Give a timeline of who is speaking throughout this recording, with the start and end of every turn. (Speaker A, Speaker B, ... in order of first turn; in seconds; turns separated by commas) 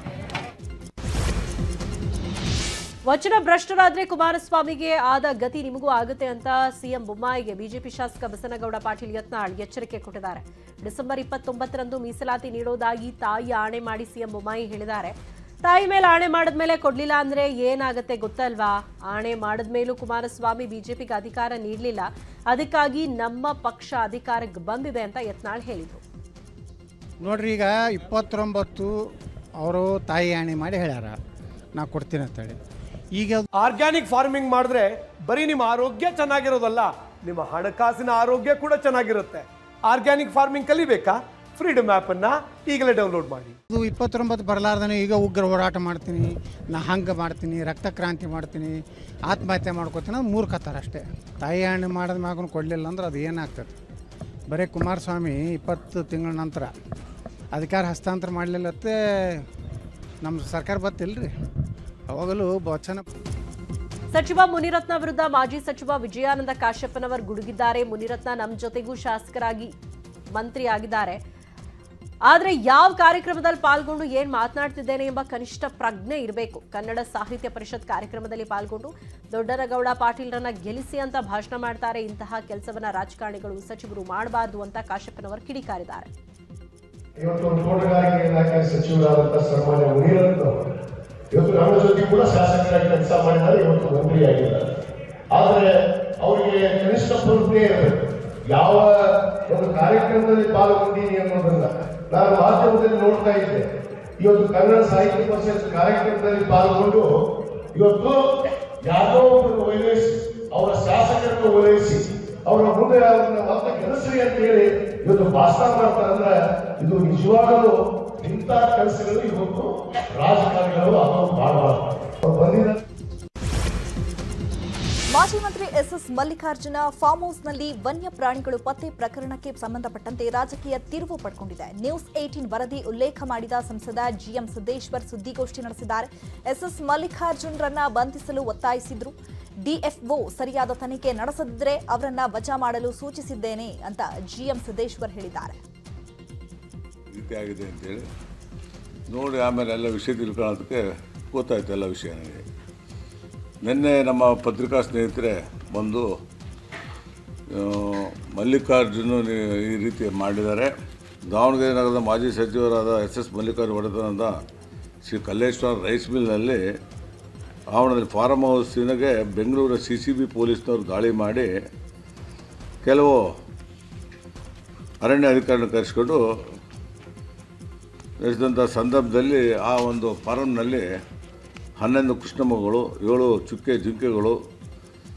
Speaker A: 3.1-26.0, Speaker B: 27.2-28.9, Speaker B: 29.6-31.1, Speaker B: 31.7-32.6, Speaker B: 33.1-33.5, Speaker C: 33.6-43.5, Speaker B: 43.7-53.7, Speaker B: 54.5-56.7, Speaker B: 57.5-59.4, Speaker B: 60.2-61.3, Speaker B: 62.1-63.0, Speaker A: 64.1-69.7, Speaker A: 70.3-71.2, Speaker A: 72.3-86.1, Speaker D: 87.2-90.5, Speaker D: 91.3-94.7, Speaker D: 95.3-98.0, Speaker D: 98.5-103.6, Speaker D: 104.2-107.1, Speaker D: 107.7-108.2, Speaker D: 108.8-122.8, Speaker E: 125.1-145.6, Speaker F: 147.1-148.0, Speaker F: 149.1-152.4, Speaker F: 153.6-156.1, Speaker F: 157.5-160.7, Speaker F: 161.3-164.4, Speaker F: 165.0-166.6, Speaker F: 167.7-171.5, Speaker F: 172.8-173.3, Speaker F: 175.0-176.2, Speaker F: 178.2-180.8, Speaker F: 181.8-184.4